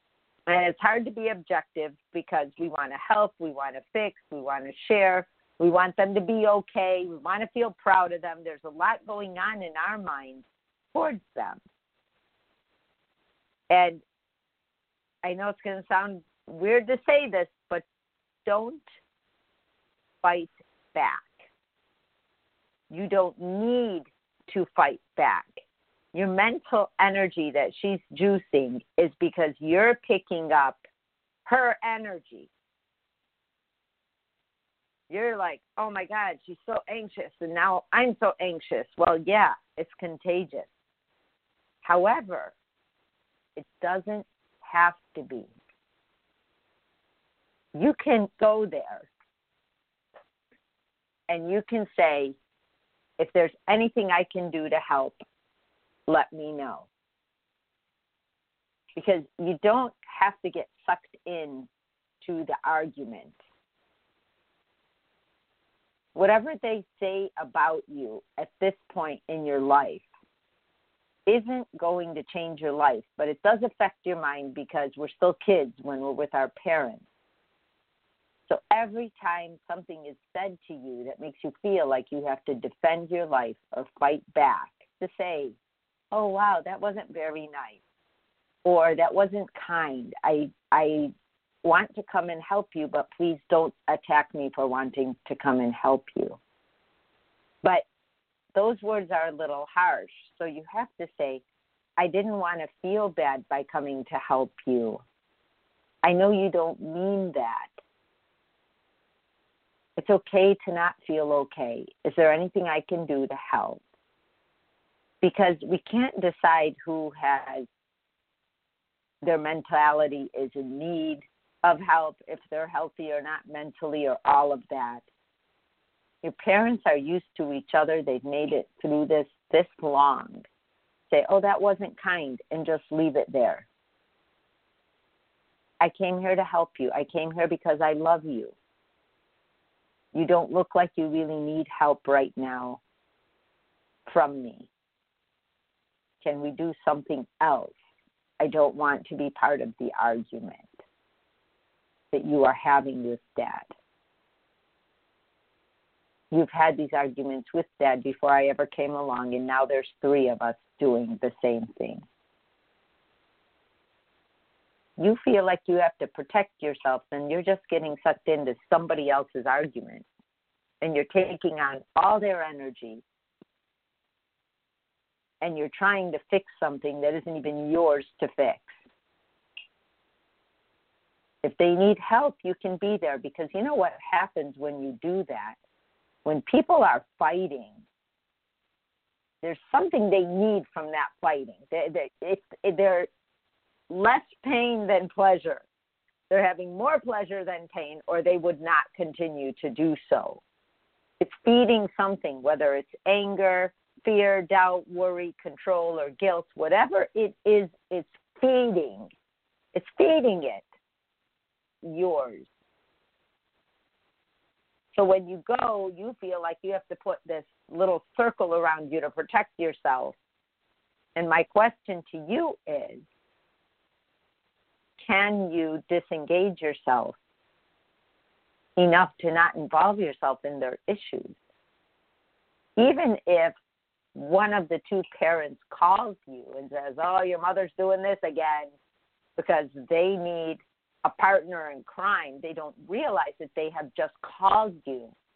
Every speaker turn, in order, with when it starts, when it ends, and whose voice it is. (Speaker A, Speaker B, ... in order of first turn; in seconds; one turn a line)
Speaker A: 0.5-11.6
Speaker A: 13.7-14.0
Speaker A: 15.2-17.8
Speaker A: 18.4-18.8
Speaker A: 20.2-21.4
Speaker A: 22.9-25.6
Speaker A: 26.1-30.8
Speaker A: 31.5-32.5
Speaker A: 35.1-40.7
Speaker A: 41.8-42.5
Speaker A: 43.6-45.5
Speaker A: 47.8-49.1
Speaker A: 51.3-52.4
Speaker A: 53.2-55.2
Speaker A: 56.1-56.9
Speaker A: 59.0-61.7
Speaker A: 62.2-63.4
Speaker A: 66.2-70.1
Speaker A: 71.2-77.0
Speaker A: 78.5-85.5
Speaker A: 86.1-87.8
Speaker A: 88.6-91.1
Speaker A: 91.6-96.4
Speaker A: 98.5-101.4
Speaker A: 102.0-105.0
Speaker A: 106.0-107.7
Speaker A: 110.0-113.8
Speaker A: 115.2-117.7
Speaker A: 119.2-125.0
Speaker A: 126.2-130.5
Speaker A: 131.1-133.7
Speaker A: 135.8-138.5
Speaker A: 140.1-142.8
Speaker A: 144.1-144.7
Speaker A: 146.2-147.8
Speaker A: 148.4-150.7
Speaker A: 152.1-153.7
Speaker A: 156.3-162.0
Speaker A: 165.0-170.1
Speaker A: 170.8-173.0
Speaker A: 175.4-178.8
Speaker A: 181.4-185.6
Speaker A: 186.2-187.8
Speaker A: 189.4-193.1
Speaker A: 193.9-195.6
Speaker A: 196.3-200.4
Speaker A: 201.2-209.1
Speaker A: 209.7-210.7
Speaker A: 211.8-212.5
Speaker A: 214.9-220.2
Speaker A: 221.2-223.0
Speaker A: 225.0-227.2
Speaker A: 228.8-231.4
Speaker A: 232.8-233.5
Speaker A: 234.2-238.7
Speaker A: 239.4-245.1